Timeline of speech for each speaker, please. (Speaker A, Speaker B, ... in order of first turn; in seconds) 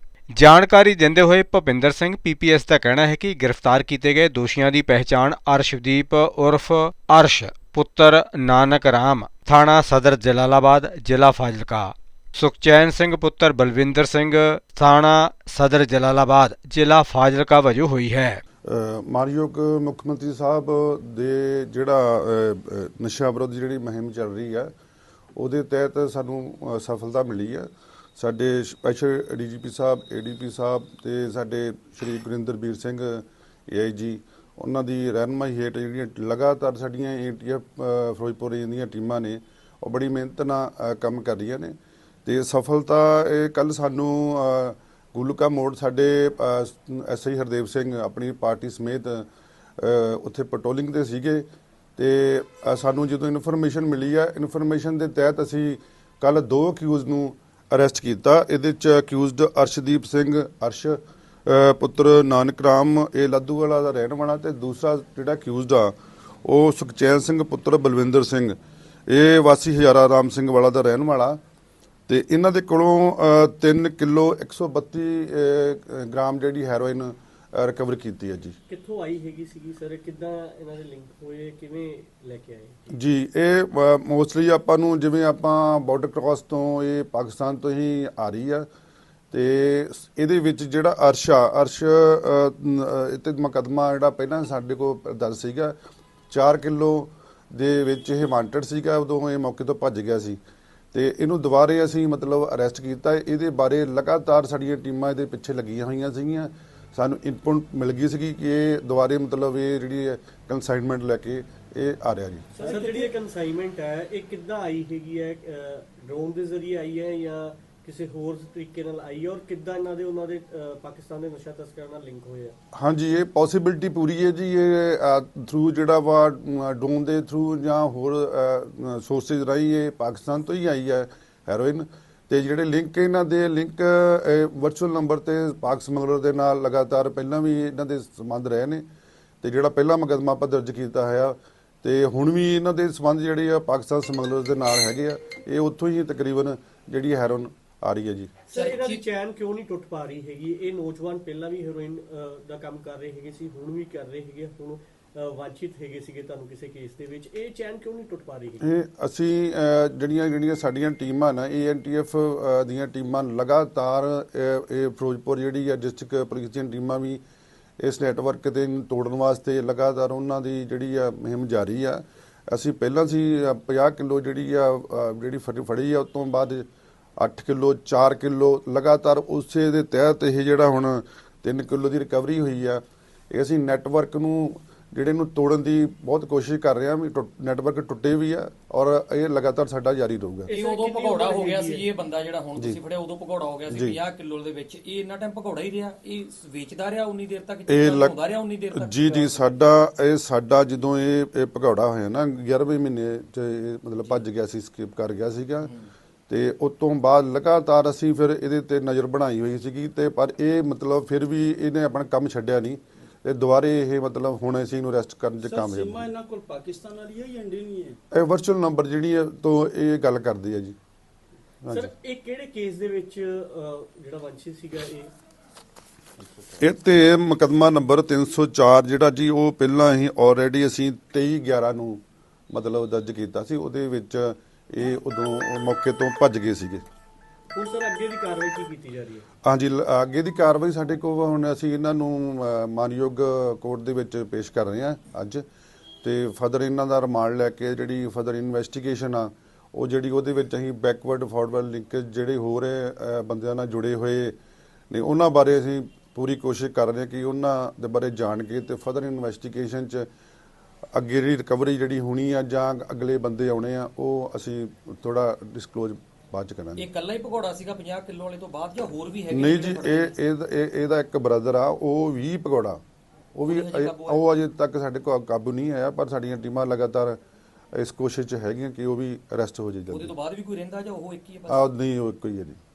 Speaker A: 0.3-18.4
Speaker B: 18.7-24.7, 25.4-41.7, 42.2-49.3, 49.8-51.5, 52.0-68.5, 69.1-71.4, 72.1-78.5, 82.9-88.7, 89.3-95.7, 96.3-100.4, 100.9-112.5, 122.7-138.8, 139.4-148.3, 158.6-167.2, 167.8-176.7, 177.2-190.5, 193.7-194.0, 197.7-198.1, 198.7-205.7, 206.3-216.1, 218.1-220.7, 221.6-221.9, 226.6-236.8, 239.4-245.4, 246.0-254.3, 254.9-260.1, 260.9-266.8, 269.3-272.8, 273.3-277.2, 277.7-280.1, 281.5-282.6
Speaker C: 78.7-82.8, 112.6-122.5, 148.5-158.7, 190.4-191.8, 221.7-225.1, 237.5-239.2
Speaker D: 112.5-113.1, 215.4-218.0
Speaker E: 148.5-149.0, 190.5-199.6, 266.8-270.1, 273.5-274.2, 279.9-281.7